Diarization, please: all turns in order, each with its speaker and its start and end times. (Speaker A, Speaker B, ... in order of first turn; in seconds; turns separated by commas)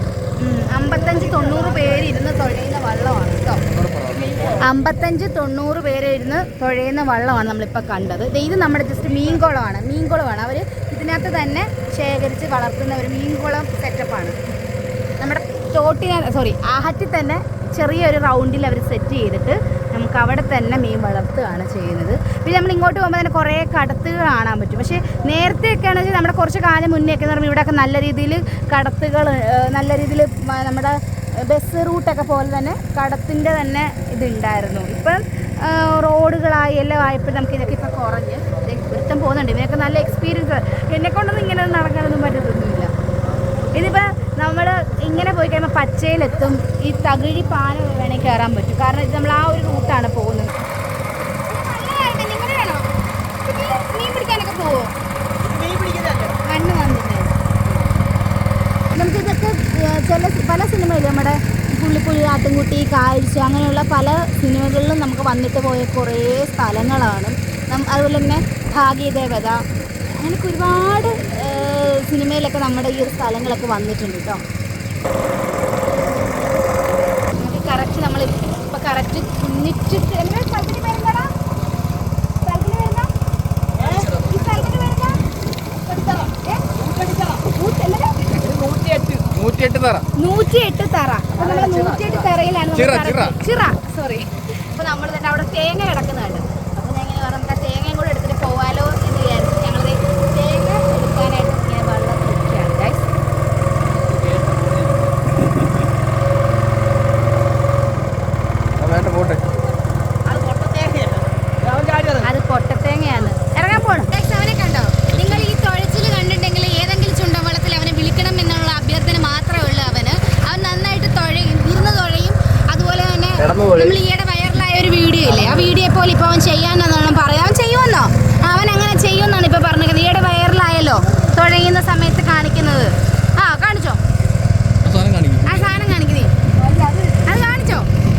Speaker A: 0.4-3.6, Speaker B: 0.9-2.1, Speaker C: 3.7-4.6, Speaker B: 4.1-4.6, Speaker A: 4.6-14.4, Speaker A: 15.2-42.9, Speaker A: 43.7-50.5, Speaker A: 51.5-52.9, Speaker A: 53.5-54.9, Speaker B: 55.4-56.4, Speaker A: 56.5-57.5, Speaker A: 58.9-69.6, Speaker A: 70.2-74.4, Speaker A: 77.4-81.3, Speaker A: 82.4-83.1, Speaker B: 83.8-84.6, Speaker A: 83.8-85.2, Speaker B: 85.7-87.4, Speaker A: 87.5-88.2, Speaker B: 88.3-89.3, Speaker C: 89.3-90.1, Speaker A: 90.2-103.1, Speaker B: 91.4-92.3, Speaker C: 92.7-93.4, Speaker B: 104.0-105.1, Speaker C: 108.8-109.4, Speaker B: 110.2-112.3, Speaker A: 112.2-134.0, Speaker C: 115.1-115.5, Speaker C: 134.8-135.7, Speaker A: 135.4-137.9